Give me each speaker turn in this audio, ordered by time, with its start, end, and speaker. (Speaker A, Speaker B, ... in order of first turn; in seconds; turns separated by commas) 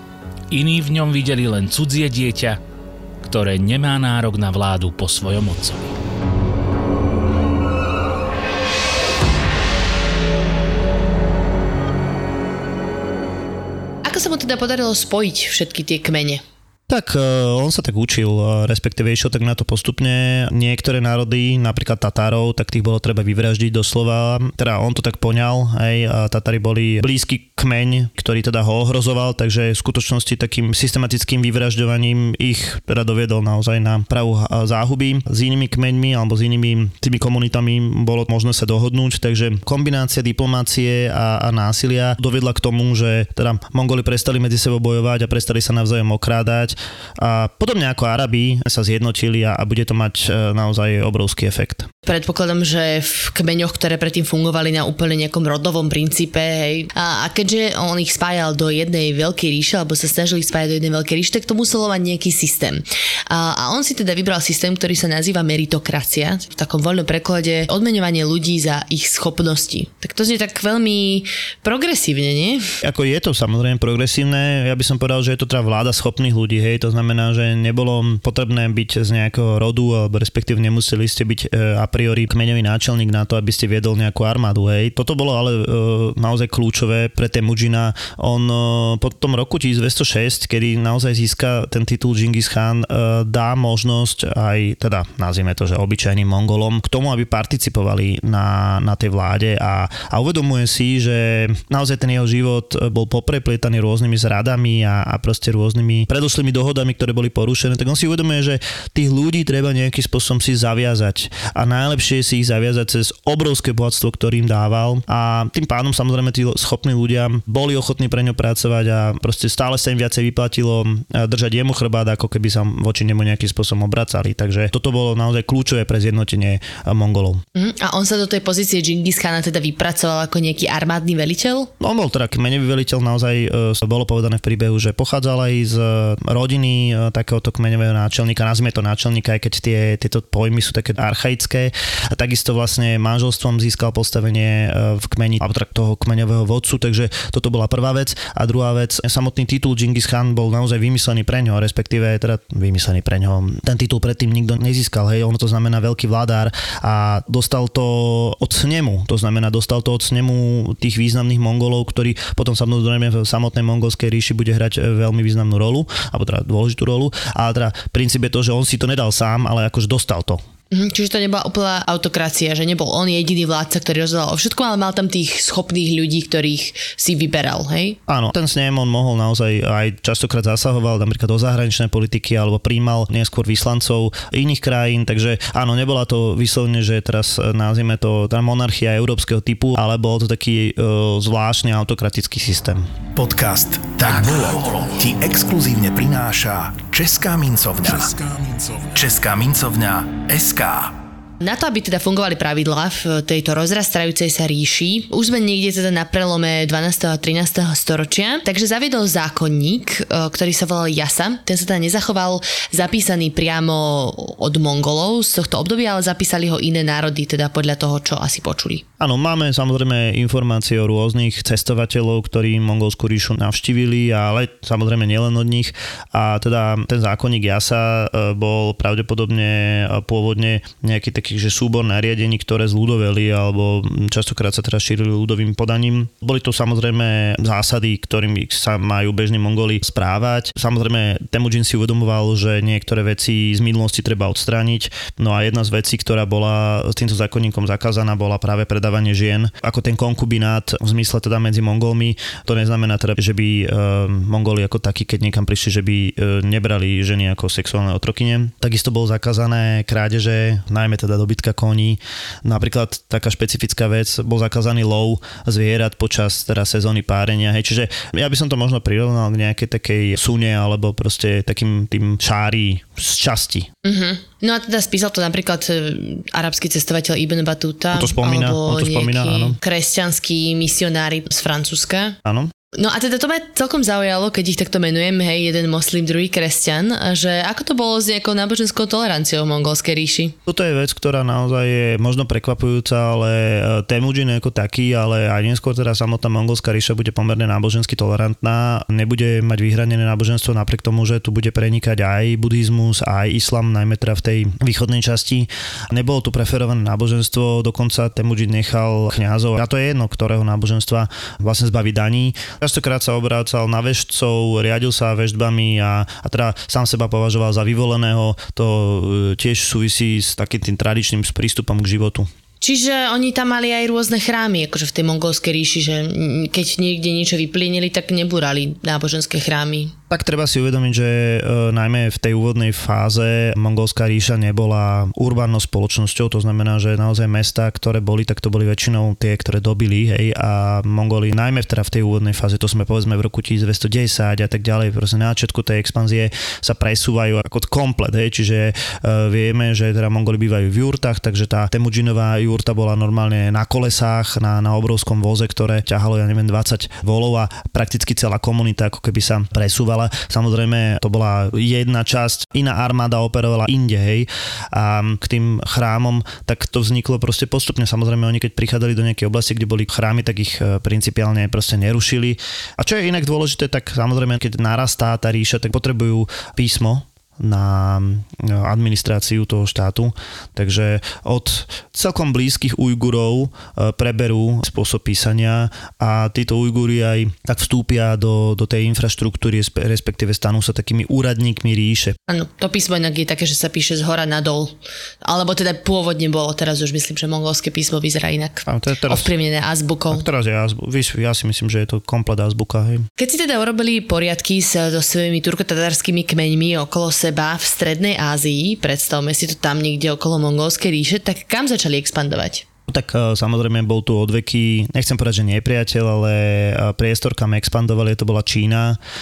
Speaker A: 0.5-2.6, Speaker A: 3.2-6.0, Speaker B: 14.0-16.4, Speaker C: 16.9-51.9, Speaker B: 52.0-72.6, Speaker C: 72.8-127.4, Speaker B: 127.5-131.7, Speaker C: 131.8-170.4, Speaker B: 170.7-178.0, Speaker C: 178.1-192.9, Speaker D: 193.1-200.9, Speaker B: 201.4-218.8, Speaker C: 219.0-273.7, Speaker B: 273.8-282.2, Speaker C: 277.9-279.6, Speaker C: 282.2-282.5, Speaker B: 282.7-290.4, Speaker C: 290.4-322.3, Speaker B: 322.6-329.9, Speaker C: 330.1-392.2, Speaker B: 392.3-400.2, Speaker C: 398.7-399.3, Speaker C: 400.1-403.1, Speaker B: 403.2-412.6, Speaker C: 412.9-419.0